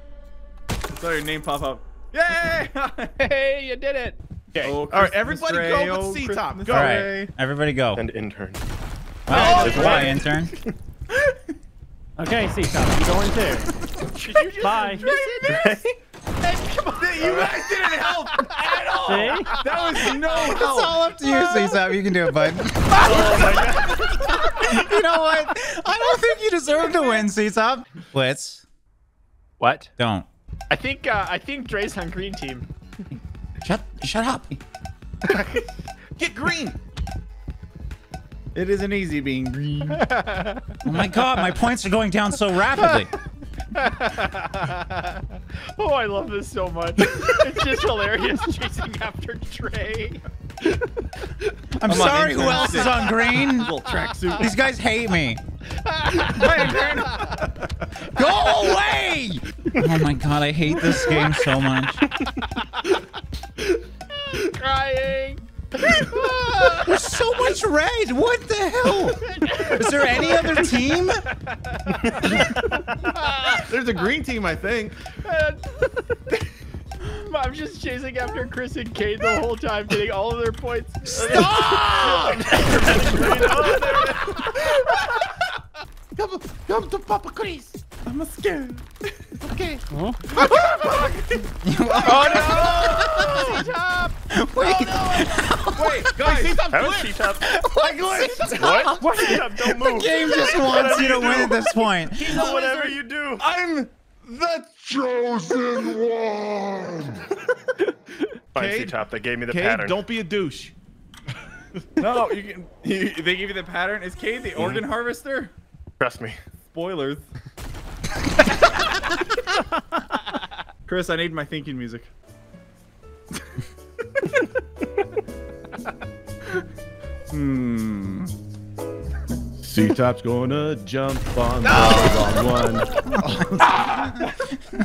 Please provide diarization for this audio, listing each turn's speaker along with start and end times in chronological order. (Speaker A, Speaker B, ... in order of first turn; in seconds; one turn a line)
Speaker A: 0.9-3.1
Speaker B: 3.2-4.2
Speaker C: 4.5-4.8
Speaker A: 4.5-7.3
Speaker D: 4.8-7.2
Speaker E: 6.7-8.0
Speaker C: 7.9-8.6
Speaker E: 9.3-10.5
Speaker A: 9.3-10.2
Speaker C: 9.3-10.7
Speaker F: 12.2-13.7
Speaker B: 14.1-15.8
Speaker F: 14.6-15.1
Speaker C: 15.4-15.9
Speaker B: 16.4-20.0
Speaker A: 17.0-21.1
Speaker F: 19.1-19.5
Speaker E: 20.3-23.6
Speaker C: 23.0-24.0
Speaker B: 24.1-24.6
Speaker E: 24.3-28.6
Speaker B: 29.6-29.9
Speaker E: 30.0-30.3
Speaker B: 30.7-32.7
Speaker E: 33.6-34.6
Speaker B: 35.2-35.6
Speaker D: 36.2-36.8
Speaker A: 38.5-40.0
Speaker B: 39.9-40.7
Speaker E: 40.8-43.1
Speaker B: 42.8-43.0
Speaker B: 43.7-50.2
Speaker E: 51.8-53.7
Speaker A: 51.8-54.5
Speaker B: 52.5-54.4
Speaker E: 54.4-55.4
Speaker B: 55.8-57.3
Speaker A: 56.3-57.8
Speaker E: 58.0-62.1
Speaker B: 61.1-61.4
Speaker B: 62.1-63.0
Speaker B: 64.1-67.2
Speaker E: 66.8-71.2
Speaker B: 69.2-70.8
Speaker B: 71.3-73.7
Speaker D: 73.5-75.0
Speaker B: 75.2-76.2
Speaker B: 77.0-85.0
Speaker D: 81.1-84.6
Speaker E: 81.2-81.5
Speaker F: 83.0-84.0
Speaker D: 86.2-87.7
Speaker A: 88.0-89.1
Speaker D: 89.4-91.1
Speaker F: 89.9-90.2
Speaker A: 90.3-91.5
Speaker E: 91.6-93.6
Speaker A: 92.0-93.6
Speaker B: 92.0-94.2
Speaker D: 92.0-93.4
Speaker E: 94.3-96.2
Speaker D: 94.6-95.4
Speaker A: 95.7-96.7
Speaker D: 96.0-97.1
Speaker C: 96.3-97.6
Speaker E: 97.4-102.4
Speaker C: 98.2-103.5
Speaker A: 100.8-101.5
Speaker D: 102.3-102.5
Speaker A: 102.3-106.5
Speaker C: 105.9-107.2
Speaker C: 108.5-110.1
Speaker D: 108.5-108.9
Speaker D: 109.5-110.7
Speaker A: 112.0-115.5
Speaker C: 114.5-114.8
Speaker C: 116.0-116.4
Speaker A: 116.6-117.3
Speaker A: 120.8-122.1
Speaker A: 127.3-128.3
Speaker D: 129.6-134.1
Speaker B: 131.9-132.3